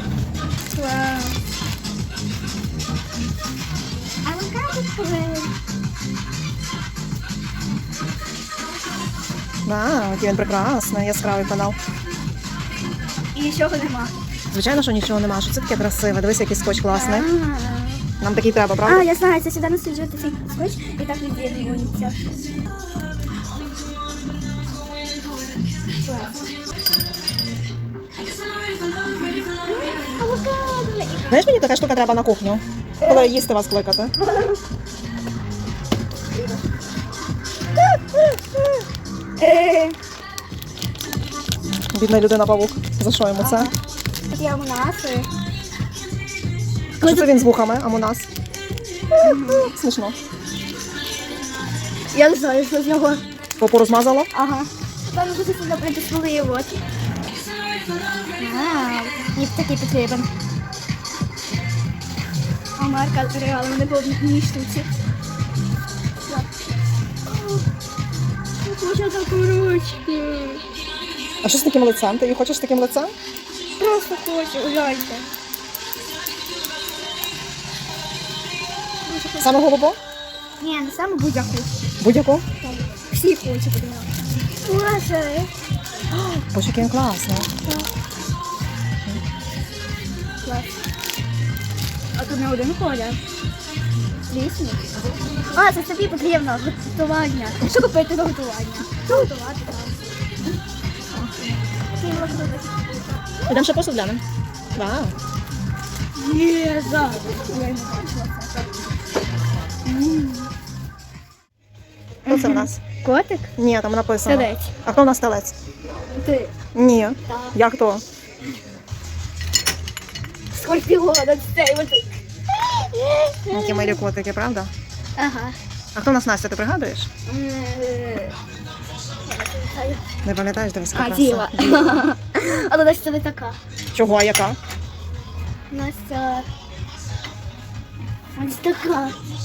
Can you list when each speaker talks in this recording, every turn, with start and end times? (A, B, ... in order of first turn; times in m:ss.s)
0:00.7-0:01.4 A
0:04.2-0:05.5 A
0:09.6-0:11.8 B
0:13.3-0:14.1 A
0:14.5-0:17.3 B
0:16.9-0:18.0 A
0:18.2-0:19.1 B
0:18.8-0:22.2 A
0:26.1-0:26.3 A
0:29.2-0:31.4 A
0:31.3-0:34.1 B
0:33.0-0:33.3 A
0:34.2-0:34.6 A
0:37.8-0:38.8 A
0:39.4-0:40.0 A
0:41.9-0:43.7 B
0:43.4-0:43.7 A
0:44.3-0:45.3 A
0:47.0-0:47.3 A
0:47.0-0:48.3 B
0:49.1-0:49.7 A
0:49.3-0:50.2 B
0:52.1-0:53.2 A
0:53.6-0:54.3 B
0:54.3-0:56.8 A
0:58.4-1:00.3 A
1:02.8-1:04.9 A
1:07.3-1:07.6 A
1:08.6-1:10.6 A
1:11.4-1:13.1 B
1:13.8-1:15.3 A
1:19.0-1:19.6 A
1:19.4-1:20.0 B
1:20.6-1:21.7 A
1:22.0-1:22.4 B
1:22.9-1:24.1 A
1:24.6-1:25.5 A
1:26.1-1:27.5 B
1:27.5-1:27.9 A
1:30.4-1:30.7 A
1:32.1-1:33.2 A
1:34.3-1:34.8 A
1:35.5-1:40.0 A
1:42.0-1:43.6 A
1:43.5-1:44.2 B
1:44.8-1:45.1 B
1:46.2-1:48.7 A
1:49.8-1:50.5 A
1:52.2-1:53.5 A
1:52.3-1:52.8 B
1:53.6-1:55.5 B
1:54.2-1:54.7 A
1:56.1-1:56.5 A
1:56.7-1:58.0 B
1:57.3-1:57.5 A
2:00.5-2:04.0 A
2:03.5-2:04.7 B
2:05.2-2:05.6 A
2:05.9-2:07.1 B
2:07.2-2:08.4 A
2:09.2-2:10.0 A
2:10.2-2:12.0 B
2:10.9-2:13.6 A
2:13.9-2:14.6 B
2:15.7-2:16.5 A
2:18.4-2:19.2 A